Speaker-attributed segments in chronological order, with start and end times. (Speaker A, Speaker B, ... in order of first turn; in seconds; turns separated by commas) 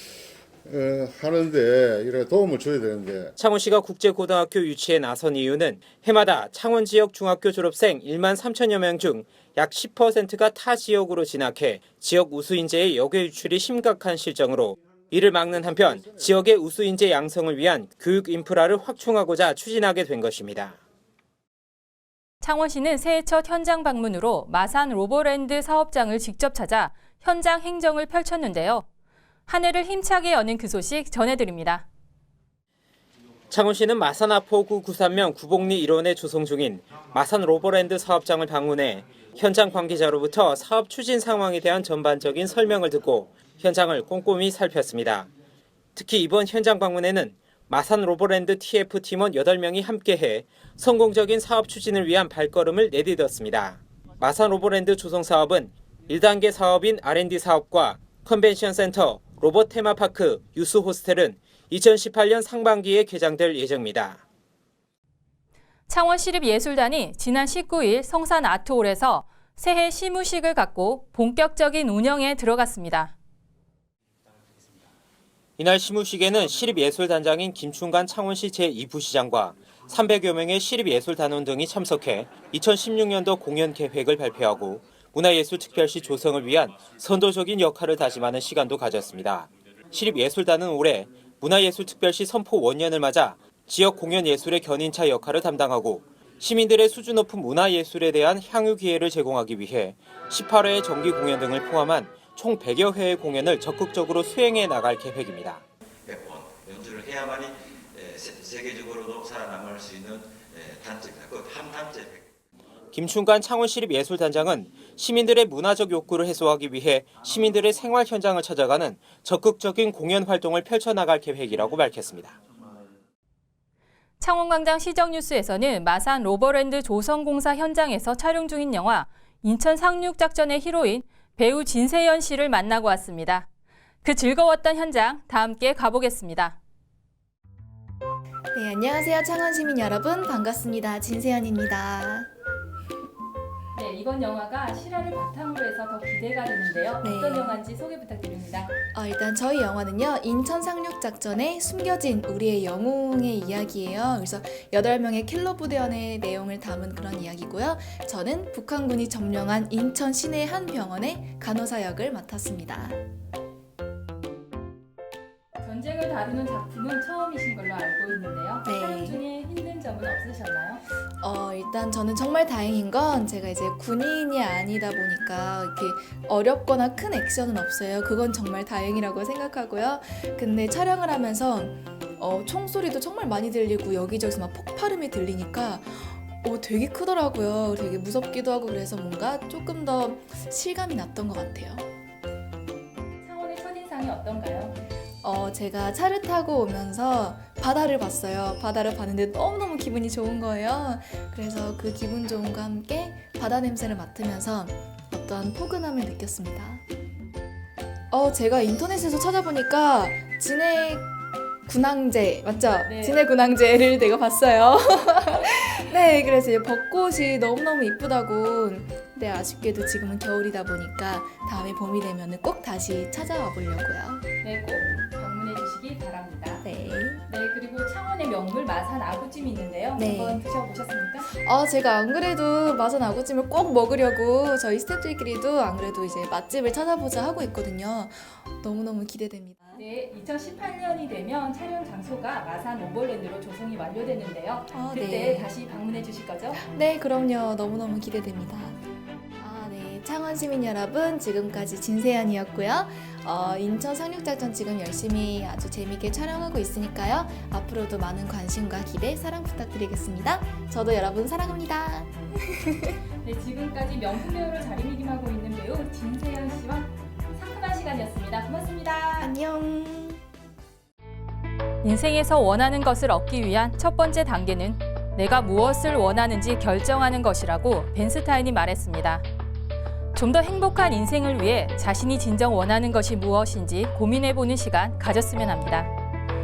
Speaker A: 0.7-3.3, Speaker B: 3.4-20.8, Speaker C: 22.4-28.9, Speaker C: 29.5-31.9, Speaker B: 33.5-45.3, Speaker B: 46.0-64.2, Speaker C: 65.9-73.1, Speaker B: 75.6-105.6, Speaker D: 106.1-112.2, Speaker B: 112.9-122.4, Speaker C: 124.2-133.5, Speaker C: 134.0-136.6, Speaker E: 138.5-142.3, Speaker C: 143.7-148.7, Speaker E: 147.0-147.6, Speaker E: 148.9-163.0, Speaker C: 165.6-170.8, Speaker E: 168.7-169.2, Speaker E: 171.2-191.9, Speaker C: 193.2-194.8, Speaker E: 195.2-206.8, Speaker E: 208.1-211.1, Speaker E: 211.7-224.2, Speaker C: 212.8-213.2, Speaker C: 224.4-226.7, Speaker E: 226.6-227.2, Speaker C: 227.3-231.3, Speaker E: 230.0-230.4, Speaker E: 231.3-239.8, Speaker C: 239.8-246.6, Speaker E: 244.7-245.5, Speaker E: 246.6-248.8, Speaker E: 249.4-263.0, Speaker C: 263.2-269.3, Speaker E: 269.2-270.2, Speaker C: 271.8-279.2, Speaker C: 280.1-285.9